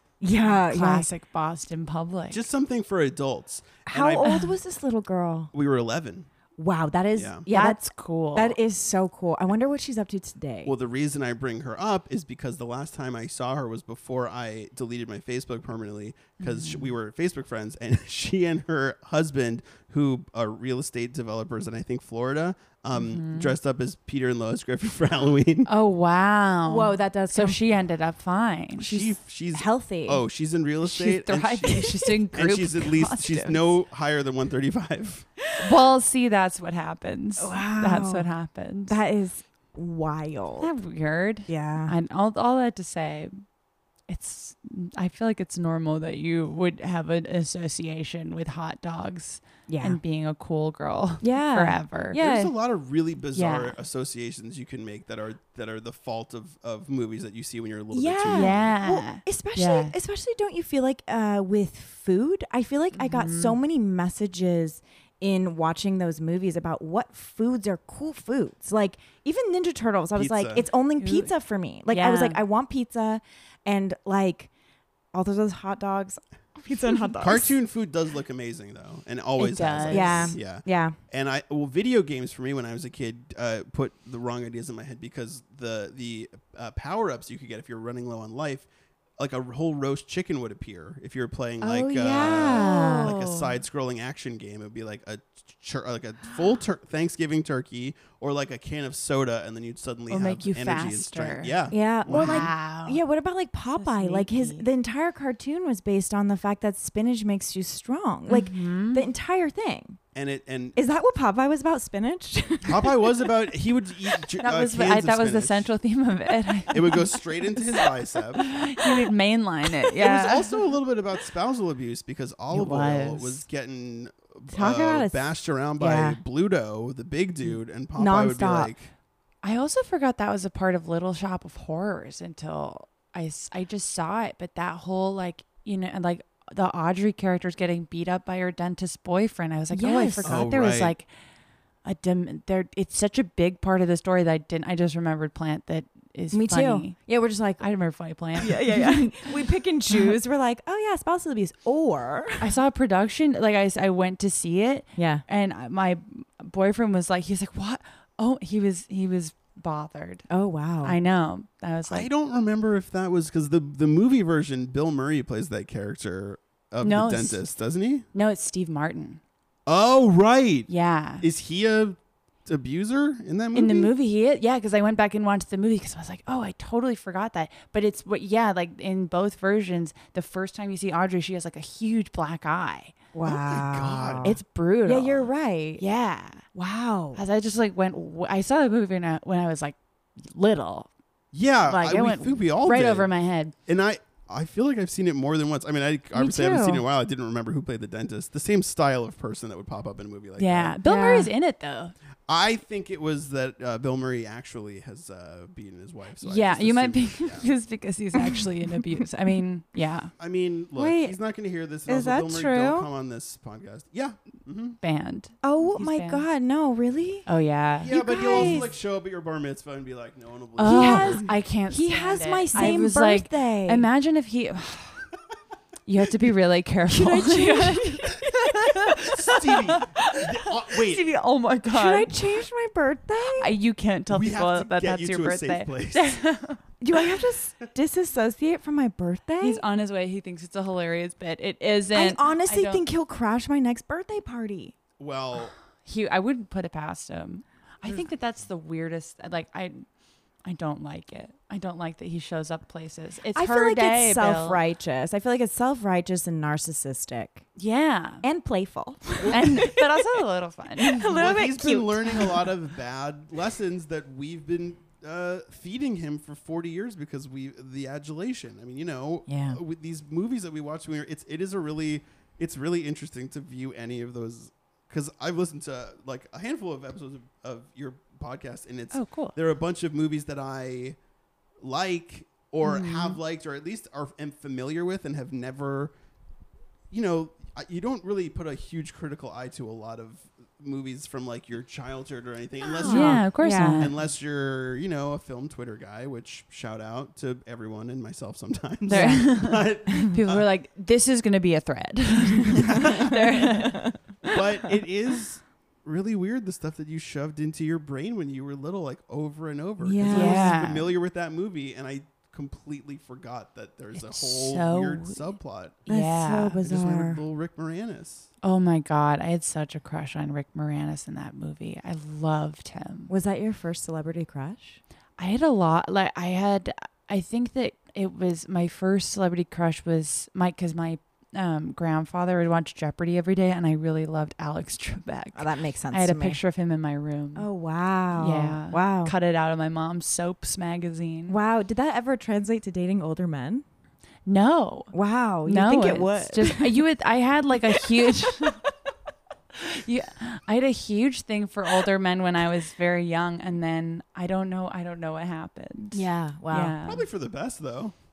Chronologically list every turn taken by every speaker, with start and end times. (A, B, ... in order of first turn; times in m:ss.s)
0:00.2-0:01.1 A
0:00.4-0:02.4 B
0:02.3-0:04.3 C
0:03.9-0:05.5 A
0:04.2-0:04.5 B
0:05.5-0:06.3 C
0:06.6-0:07.8 A
0:07.1-0:07.4 C
0:07.5-0:08.6 B
0:08.3-0:10.7 A
0:10.6-0:25.7 C
0:16.4-0:16.9 B
0:22.9-0:23.5 B
0:25.7-0:29.1 B
0:26.6-0:27.6 A
0:28.8-0:35.2 C
0:29.5-0:30.2 A
0:30.9-0:33.7 B
0:35.6-0:39.0 B
0:37.4-0:38.3 A
0:38.9-0:40.7 A
0:40.6-0:43.3 B
0:41.5-0:41.9 A
0:44.1-0:52.2 B
0:49.7-0:50.0 A
0:51.2-0:52.5 A
0:52.1-0:58.7 C
0:53.3-0:53.8 B
0:57.9-1:14.5 A
0:58.3-0:59.9 B
1:02.9-1:03.6 B
1:10.2-1:10.7 C
1:11.0-1:11.3 B
1:11.9-1:12.4 B
1:15.1-1:17.6 A
1:17.2-1:42.5 C
1:19.4-1:20.4 B
1:19.9-1:21.0 A
1:31.6-1:33.1 A
1:32.0-1:33.5 B
1:40.1-1:43.0 B
1:41.7-1:50.0 A
1:43.8-1:44.7 B
1:48.3-1:49.0 B
1:50.1-1:50.8 C
1:50.8-1:53.1 A
1:52.6-1:55.7 C
1:54.4-1:57.1 B
1:56.7-1:58.5 C
1:58.4-2:00.6 B
2:00.0-2:08.9 C
2:02.5-2:03.4 B
2:04.5-2:05.2 A
2:05.8-2:06.2 A
2:08.0-2:08.7 A
2:09.4-2:21.1 B
2:19.7-2:20.4 A
2:20.2-2:20.9 C
2:21.8-2:27.1 B
2:26.3-2:27.6 A
2:27.6-2:29.3 B
2:28.4-2:32.5 A
2:32.4-2:40.3 B
2:35.0-2:35.2 A
2:40.3-2:41.0 A
2:40.8-2:42.1 B
2:41.9-2:48.0 C
2:46.8-2:47.4 B
2:48.1-2:49.2 B
2:49.6-2:50.7 C
2:50.7-2:51.2 B
2:51.2-2:53.9 C
2:53.5-3:02.9 B
3:03.1-3:05.8 A
3:03.2-3:04.3 C
3:04.2-3:06.4 B
3:06.5-3:07.2 A
3:07.1-3:10.9 B
3:11.3-3:13.1 C
3:11.7-3:13.5 B
3:13.6-3:20.8 C
3:16.1-3:16.8 B
3:20.4-3:21.9 B
3:20.8-3:21.3 A
3:22.3-3:27.5 C
3:26.2-3:30.1 B
3:30.2-3:34.8 C
3:30.8-3:31.1 A
3:31.9-3:32.9 A
3:34.8-3:36.2 B
3:35.4-3:37.2 A
3:37.2-3:38.7 B
3:37.8-3:41.3 C
3:37.9-3:38.7 A
3:40.6-3:45.0 B
3:40.6-3:43.8 A
3:45.9-3:50.1 B
3:46.9-3:48.8 A
3:49.0-3:51.0 C
3:50.7-3:52.1 B
3:51.7-3:53.5 A
3:53.4-3:56.6 B
3:54.1-3:56.2 C
3:56.8-3:59.6 A
3:59.4-4:02.8 B
4:01.9-4:04.8 A
4:05.0-4:05.5 C
4:05.8-4:09.8 B
4:10.4-4:14.6 B
4:13.3-4:17.4 A
4:17.6-4:18.2 B
4:18.2-4:20.0 A
4:19.2-4:19.5 C
4:19.3-4:21.1 B
4:20.8-4:22.4 A
4:21.1-4:41.0 C
4:29.3-4:29.6 A
4:38.9-4:39.3 B
4:41.6-4:45.9 C
4:42.6-4:43.2 B
4:46.9-5:00.4 C
4:52.6-4:53.9 A
4:52.8-4:53.9 B
4:58.9-5:04.4 B
4:58.9-4:59.3 A
5:02.6-5:03.1 C
5:02.8-5:04.0 A
5:04.2-5:15.8 C
5:09.8-5:10.6 A
5:10.1-5:10.9 B
5:14.0-5:15.3 B
5:15.9-5:16.6 B
5:15.9-5:17.2 A
5:16.6-5:18.3 C
5:18.4-5:23.1 B
5:23.1-5:24.8 A
5:25.2-5:37.5 B
5:35.3-5:36.4 A
5:37.4-5:39.1 A
5:38.2-5:41.4 B
5:41.3-5:43.6 A
5:44.2-5:44.9 B
5:44.9-5:46.8 A
5:45.4-5:48.6 B
5:48.0-5:48.6 A
5:49.5-5:57.0 B
5:55.9-5:56.7 A
5:56.8-5:57.9 C